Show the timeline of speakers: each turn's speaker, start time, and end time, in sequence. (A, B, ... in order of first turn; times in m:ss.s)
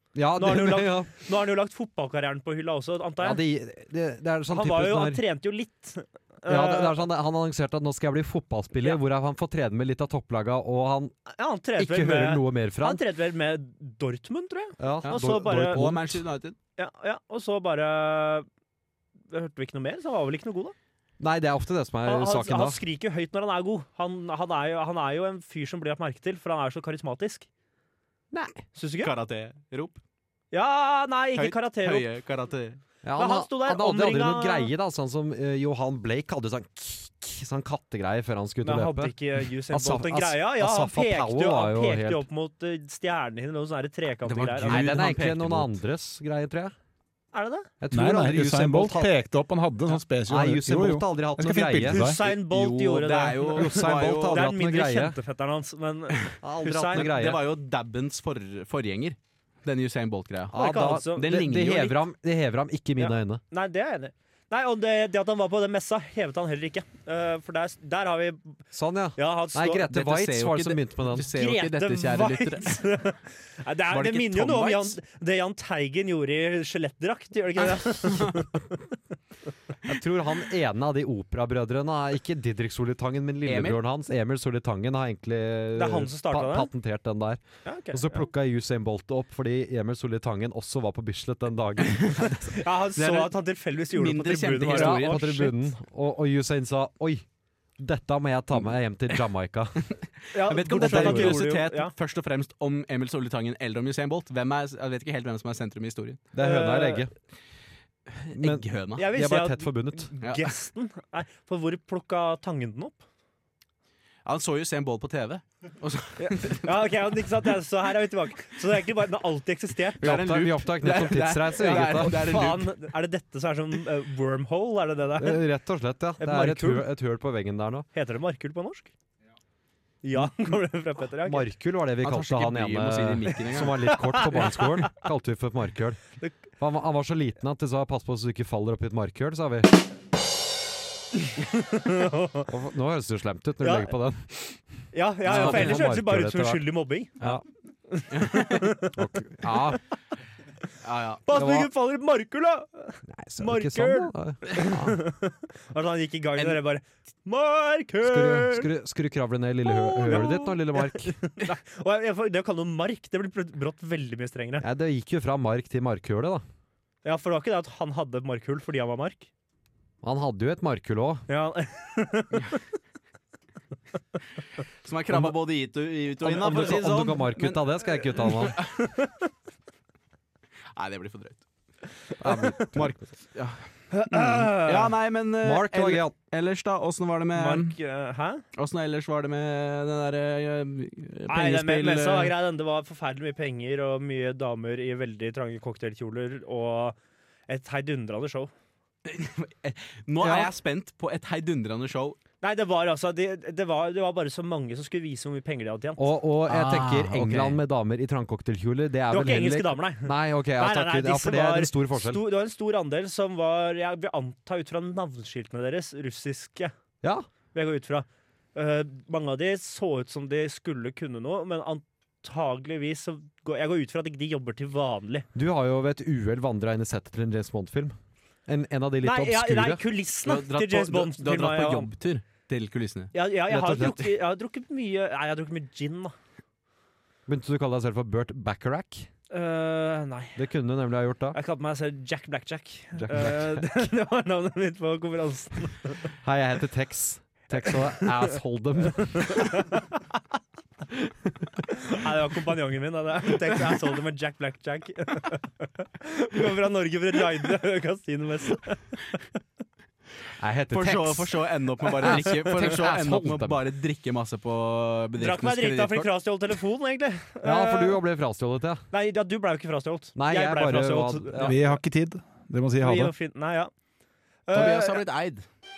0:00.2-0:01.1 A
0:00.4-0:03.4 B
0:03.2-0:05.2 A
0:04.5-0:07.0 B
0:06.5-0:11.2 A
0:11.3-0:15.8 B
0:11.8-0:13.0 A
0:14.8-0:16.2 A
0:15.0-0:16.6 C
0:16.8-0:18.5 B
0:19.3-0:20.7 B
0:21.2-0:22.8 A
0:22.0-0:27.5 B
0:28.3-0:28.6 A
0:28.8-0:29.1 B
0:29.0-0:30.0 C
0:30.5-0:32.1 B
0:31.4-0:32.8 C
0:33.0-0:39.2 A
0:33.2-0:34.7 B
0:38.6-0:44.9 B
0:39.7-0:42.2 A
0:44.2-0:45.7 C
0:44.7-0:46.8 A
0:47.3-0:47.7 B
0:47.8-0:49.1 A
0:47.9-0:52.2 D
0:50.3-0:52.1 A
0:51.8-0:57.1 B
0:52.2-0:54.4 C
0:53.5-0:55.2 A
0:56.4-0:57.4 A
0:56.9-1:00.6 C
1:00.5-1:03.4 A
1:00.5-1:01.3 B
1:01.2-1:02.0 C
1:03.0-1:08.6 B
1:08.7-1:11.3 A
1:09.2-1:09.9 B
1:09.9-1:12.7 C
1:11.2-1:18.6 B
1:13.9-1:15.0 C
1:18.0-1:18.4 C
1:19.8-1:32.5 A
1:23.5-1:23.8 C
1:25.8-1:26.7 B
1:27.6-1:28.2 B
1:31.9-1:32.2 C
1:32.2-1:35.4 B
1:33.0-1:33.4 C
1:33.9-1:35.5 C
1:34.7-1:37.2 A
1:37.8-1:39.9 A
1:40.3-1:41.9 B
1:40.5-1:46.2 C
1:40.6-1:41.4 A
1:46.3-1:47.1 A
1:46.4-1:47.1 B
1:48.2-1:49.1 C
1:48.3-1:50.1 A
1:49.0-1:53.0 B
1:50.2-1:50.5 C
1:54.2-1:56.9 C
1:56.2-2:00.1 B
2:00.0-2:02.1 A
2:00.0-2:02.7 C
2:01.6-2:05.4 B
2:05.2-2:07.9 A
2:06.2-2:06.9 B
2:07.9-2:08.9 B
2:10.0-2:11.5 B
2:11.2-2:16.0 A
2:12.0-2:13.8 C
2:13.9-2:14.9 B
2:16.6-2:19.8 A
2:21.4-2:22.5 B
2:22.5-2:24.2 A
2:23.6-2:23.9 B
2:24.9-2:27.2 B
2:25.2-2:26.6 A
2:25.3-2:25.8 C
2:27.9-2:29.0 B
2:28.1-2:28.7 C
2:29.0-2:29.8 A
2:29.5-2:29.8 B
2:30.8-2:31.2 C
2:31.3-2:38.7 B
2:31.3-2:31.7 A
2:33.1-2:35.0 A
2:38.0-2:41.2 A
2:39.7-2:44.7 B
2:44.6-2:46.4 A
2:47.0-2:49.3 B
2:50.0-2:51.3 A
2:51.3-2:52.6 B
2:54.8-2:58.9 C
2:55.1-2:55.4 A
2:56.2-2:58.6 A
3:00.7-3:01.4 C
3:02.2-3:02.9 A
3:02.4-3:02.7 B
3:02.6-3:03.6 C
3:03.9-3:04.9 B
3:04.1-3:07.8 C
3:05.4-3:06.2 A
3:07.3-3:08.4 B
3:08.6-3:12.4 C
3:11.3-3:17.0 B
3:17.5-3:18.5 B
3:19.0-3:22.2 C
3:20.2-3:20.5 A
3:22.4-3:26.1 B
3:26.0-3:32.2 A
3:27.2-3:27.6 C
3:29.1-3:36.7 B
3:37.5-3:45.3 B
3:45.4-3:48.0 A
3:48.5-3:49.8 A
3:49.0-3:51.9 B
3:50.2-3:53.1 C
3:53.1-3:56.2 B
3:53.5-3:54.1 A
3:57.3-3:59.1 A
3:59.3-4:00.4 B
4:00.4-4:01.4 A
4:01.3-4:06.1 B
4:03.0-4:03.8 A
4:06.2-4:09.5 A
4:07.6-4:08.2 B
4:08.9-4:10.0 B
4:11.7-4:19.2 B
4:20.4-4:21.4 A
4:20.7-4:26.1 C
4:22.0-4:23.6 A
4:25.2-4:28.0 B
4:27.4-4:28.8 A
4:28.9-4:31.6 B
4:30.2-4:31.6 A
4:31.4-4:33.1 D
4:32.8-4:33.7 B
4:34.5-4:35.0 B
4:34.5-4:35.5 C